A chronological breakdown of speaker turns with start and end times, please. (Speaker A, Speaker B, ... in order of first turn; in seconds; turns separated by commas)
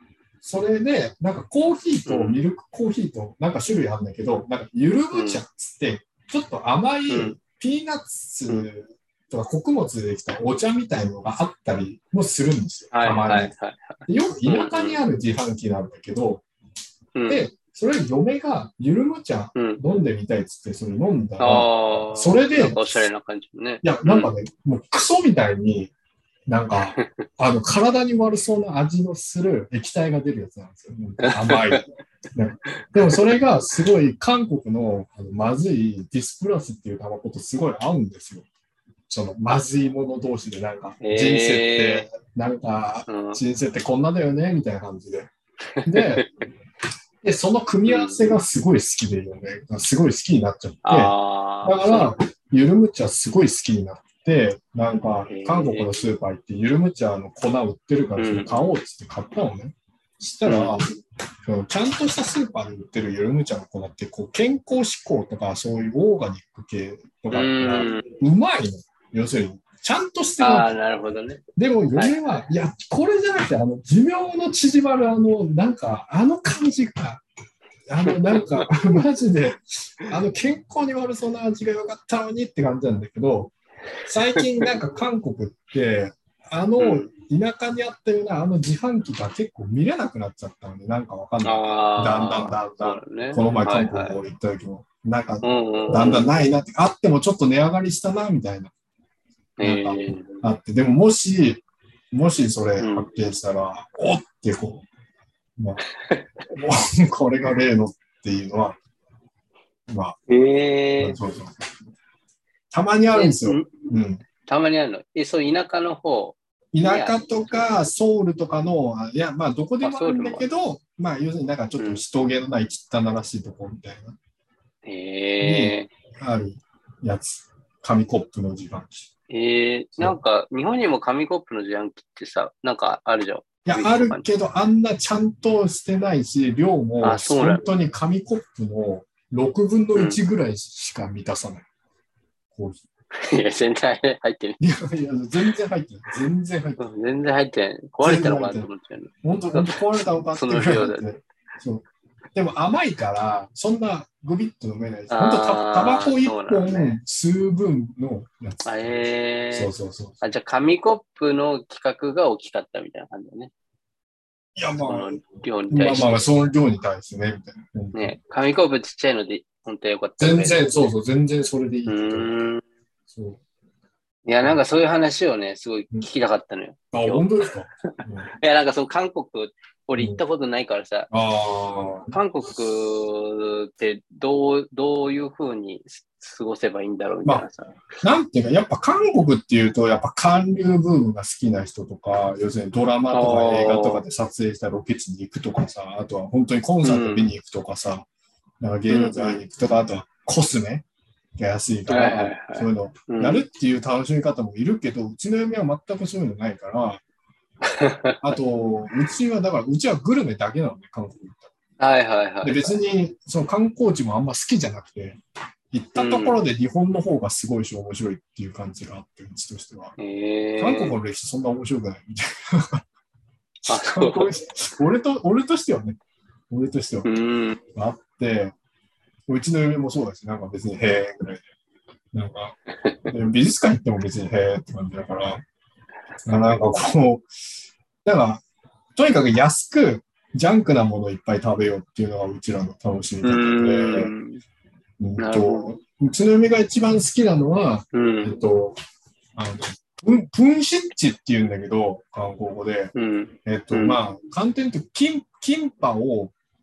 Speaker A: 0.4-13.5, Speaker B: 2.0-2.4, Speaker B: 5.1-5.4, Speaker B: 7.1-7.4, Speaker B: 12.9-15.0, Speaker A: 14.1-16.4, Speaker B: 17.1-17.4, Speaker A: 17.3-23.1, Speaker B: 19.6-19.8, Speaker B: 21.4-24.3, Speaker A: 23.8-25.9, Speaker A: 26.4-38.5, Speaker B: 31.2-31.8, Speaker B: 32.9-33.2, Speaker A: 39.1-45.3, Speaker B: 41.0-42.1, Speaker B: 43.1-43.4, Speaker B: 45.8-46.3, Speaker A: 45.8-46.3, Speaker A: 47.2-51.1, Speaker B: 47.9-48.4, Speaker B: 50.8-52.1, Speaker A: 51.6-60.9, Speaker B: 55.3-56.0, Speaker B: 58.2-58.8, Speaker B: 60.4-60.8, Speaker A: 61.5-70.8, Speaker B: 67.3-68.2, Speaker B: 70.4-71.4, Speaker A: 71.5-77.2, Speaker B: 71.9-72.4, Speaker A: 77.9-83.5, Speaker B: 78.0-78.9, Speaker A: 84.0-98.7, Speaker B: 84.4-84.7, Speaker B: 86.8-87.1, Speaker B: 91.4-94.2, Speaker B: 95.4-96.3, Speaker B: 99.6-100.4, Speaker A: 99.6-104.8, Speaker B: 102.8-103.1, Speaker A: 106.5-108.8, Speaker A: 109.9-110.2, Speaker B: 110.3-111.2, Speaker A: 111.0-111.7, Speaker A: 112.7-114.2, Speaker B: 113.1-113.9, Speaker B: 114.5-117.7, Speaker A: 116.7-124.2, Speaker B: 119.8-120.5, Speaker B: 121.8-122.0, Speaker B: 124.8-125.9, Speaker A: 125.4-129.1, Speaker B: 129.3-134.3, Speaker A: 133.6-141.7, Speaker B: 137.0-137.7, Speaker B: 139.9-140.2, Speaker A: 142.5-142.8, Speaker B: 143.2-144.6, Speaker A: 144.6-146.9, Speaker B: 146.8-151.1, Speaker A: 148.0-148.7, Speaker A: 149.2-160.2, Speaker B: 155.1-157.0, Speaker B: 158.6-163.5, Speaker A: 164.6-168.1, Speaker B: 164.8-166.3, Speaker B: 167.9-170.9, Speaker A: 170.2-172.5, Speaker B: 171.9-172.6, Speaker A: 173.1-173.4, Speaker B: 174.2-177.3, Speaker A: 176.9-178.3, Speaker B: 178.0-181.1, Speaker A: 181.1-182.5, Speaker B: 182.1-187.8, Speaker A: 188.0-198.1, Speaker B: 193.1-194.0, Speaker B: 196.8-197.3, Speaker A: 198.6-200.8, Speaker B: 198.9-199.4, Speaker A: 201.4-207.0, Speaker B: 201.9-203.4, Speaker B: 207.6-208.4, Speaker A: 208.2-211.5, Speaker B: 211.8-212.7, Speaker A: 212.4-215.2, Speaker A: 215.7-219.9, Speaker B: 215.9-216.4, Speaker B: 220.0-221.0, Speaker A: 220.6-222.8, Speaker A: 223.6-226.0, Speaker B: 223.7-224.3, Speaker A: 226.5-227.1, Speaker B: 227.0-227.6, Speaker A: 227.7-228.5, Speaker A: 229.3-231.4, Speaker A: 232.1-235.4, Speaker B: 232.8-233.1, Speaker A: 236.2-237.3, Speaker B: 236.3-236.8, Speaker A: 238.0-238.4, Speaker A: 238.9-244.1, Speaker B: 243.2-244.4, Speaker A: 245.0-248.8, Speaker B: 245.2-245.7, Speaker B: 247.9-248.4, Speaker A: 249.3-252.9, Speaker B: 252.9-254.0, Speaker A: 253.4-256.3